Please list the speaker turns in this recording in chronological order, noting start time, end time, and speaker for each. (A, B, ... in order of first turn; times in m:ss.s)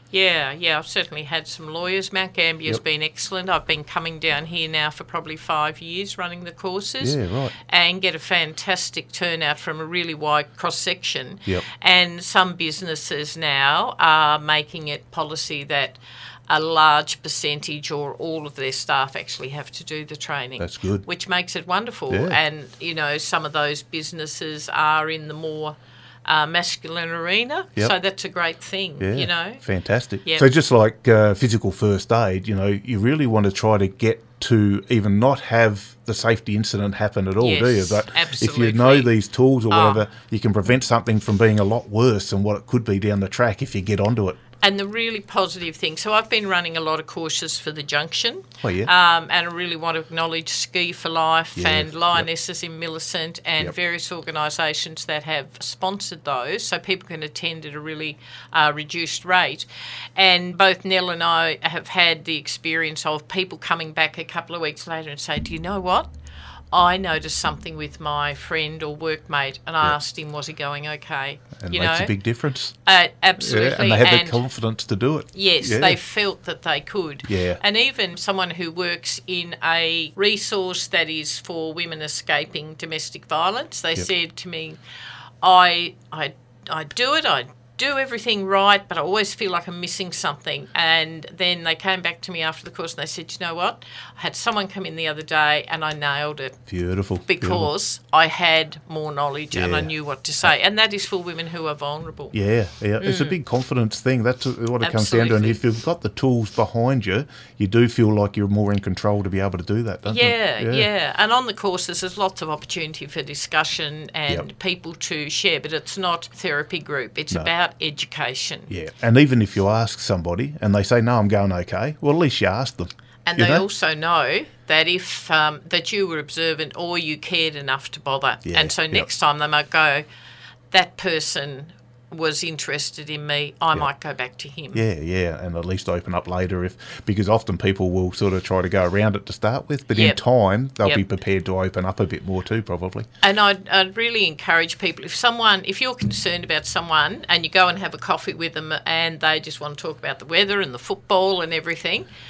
0:00.1-0:29.6 A
0:07.0-0:07.5 B
0:20.6-0:21.0 B
0:22.1-0:22.4 B
0:29.0-0:44.4 B
0:37.4-0:39.1 A
0:39.7-0:40.0 A
0:44.6-1:06.1 A
0:48.6-0:48.9 B
0:51.6-0:52.3 B
1:06.7-1:12.1 A
1:11.6-1:12.7 B
1:12.8-1:14.4 A
1:13.4-1:16.0 B
1:15.3-1:24.8 A
1:17.2-1:17.6 B
1:25.4-1:36.6 A
1:36.7-1:37.7 B
1:37.2-1:42.3 A
1:39.5-1:39.9 B
1:42.3-1:50.9 B
1:43.0-1:43.4 A
1:44.8-1:45.6 A
1:50.0-1:58.7 A
1:58.7-2:03.6 B
2:03.2-2:10.0 A
2:08.4-2:09.1 B
2:10.7-2:14.8 A
2:14.7-2:23.1 B
2:19.9-2:20.2 A
2:23.2-2:32.1 A